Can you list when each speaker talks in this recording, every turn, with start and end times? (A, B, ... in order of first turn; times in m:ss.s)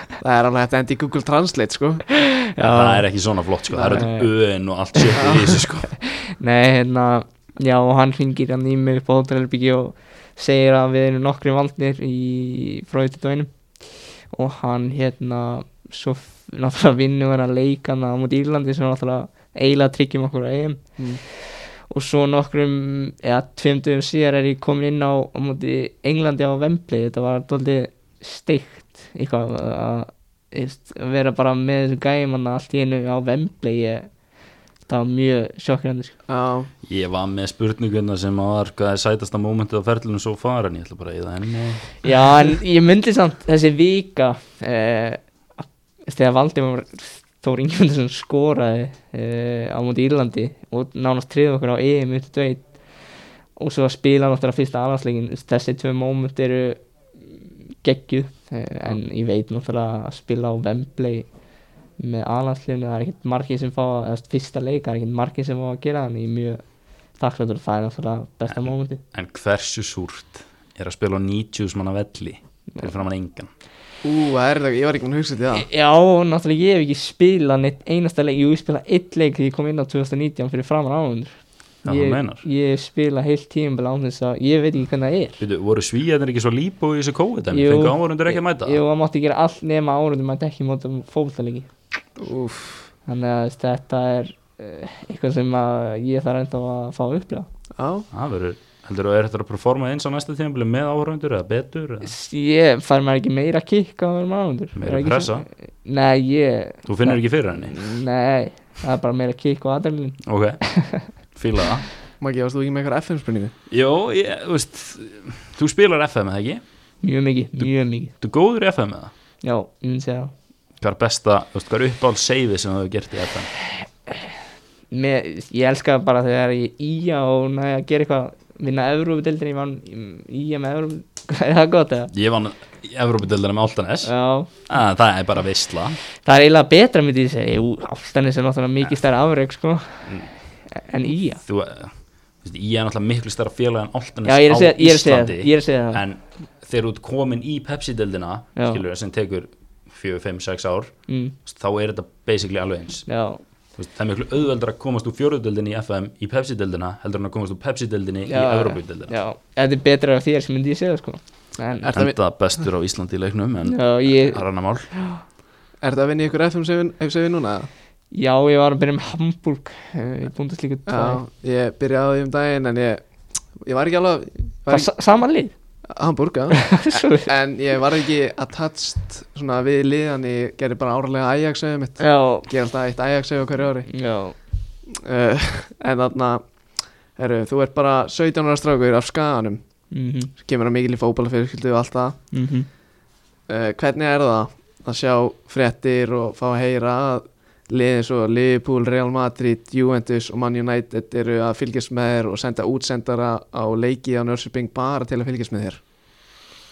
0:00.2-0:02.0 A
0:02.2-0:03.1 B
0:02.6-0:06.0 C
0:03.7-0:04.1 A
0:03.9-0:04.3 B
0:05.2-0:05.5 A
0:06.0-0:34.1 B
0:34.9-0:36.2 B
0:36.3-0:36.7 A
0:36.8-0:42.1 C
0:42.0-0:45.2 B
0:46.1-1:01.3 B
1:02.0-1:06.6 B
1:07.2-1:09.0 B
1:08.5-1:13.5 C
1:14.0-1:15.7 A
1:15.6-1:21.3 B
1:21.8-1:25.4 B
1:21.8-1:22.4 C
1:25.4-1:28.8 C
1:27.5-1:31.7 B
1:32.2-1:32.9 A
1:33.1-1:37.5 B
1:37.8-1:38.1 A
1:38.1-1:42.1 C
1:42.0-1:51.1 B
1:44.8-1:45.5 C
1:46.9-1:47.8 C
1:50.2-1:50.6 C
1:51.2-1:51.9 C
1:52.2-1:53.5 A
1:53.7-1:56.6 C
1:57.0-1:58.1 B
1:58.2-1:59.1 C
1:59.4-2:00.3 B
2:00.8-2:03.5 C
2:04.9-2:12.1 B
2:12.1-2:14.1 C
2:14.0-2:14.5 B
2:14.7-2:16.0 C
2:16.2-2:21.4 B
2:20.0-2:20.3 C
2:21.4-2:33.1 C
2:24.2-2:26.0 B
2:28.6-2:28.8 B
2:31.1-2:31.4 B
2:33.1-2:33.4 B
2:33.8-2:39.1 C
2:38.3-2:41.9 B
2:41.8-2:42.2 A
2:41.9-2:44.9 C
2:43.7-2:45.2 B
2:45.8-2:47.7 A
2:48.1-2:51.2 B
2:50.9-2:53.0 A
2:53.6-2:54.9 A
2:54.7-2:55.5 B
2:55.9-3:03.9 A
2:56.6-2:57.3 B
3:02.0-3:02.5 B
3:03.9-3:04.4 B
3:04.9-3:06.4 A
3:07.1-3:09.6 A
3:09.9-3:10.3 B
3:10.3-3:12.2 A
3:12.3-3:12.7 B
3:13.5-3:25.8 A